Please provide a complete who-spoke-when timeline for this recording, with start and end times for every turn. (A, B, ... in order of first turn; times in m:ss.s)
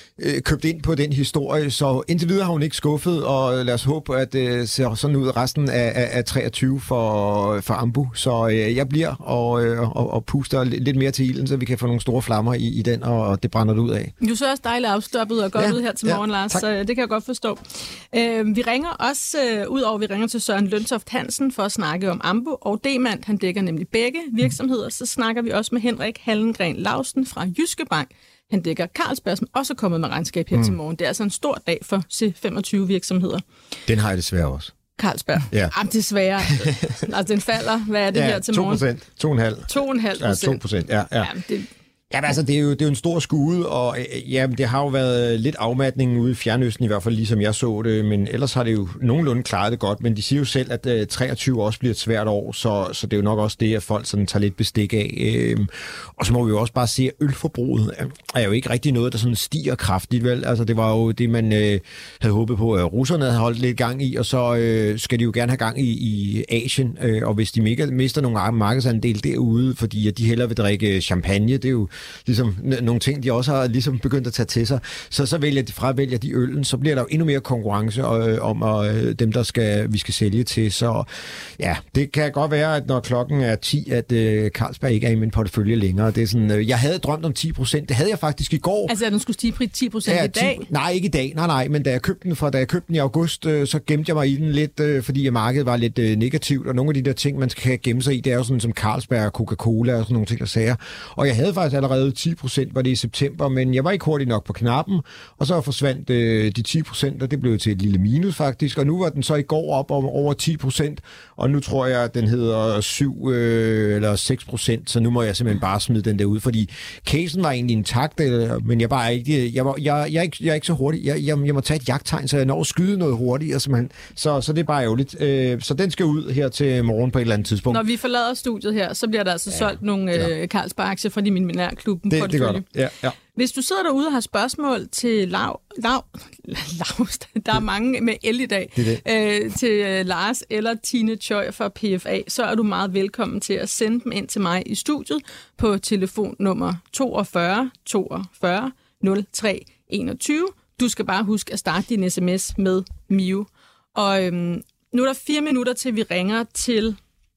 0:00.2-0:14.1 A
0:14.2-0:33.4 B
0:15.6-0:16.6 A
0:33.9-0:34.7 A
0:35.0-0:38.8 B
0:38.1-0:41.3 A
0:39.7-0:40.6 B
0:41.2-0:41.7 B
0:42.1-1:21.1 A
1:21.6-1:28.9 A
1:28.9-1:30.7 B
1:30.1-2:07.8 A
2:07.7-2:12.6 B
2:12.1-2:13.2 A
2:13.4-2:37.0 B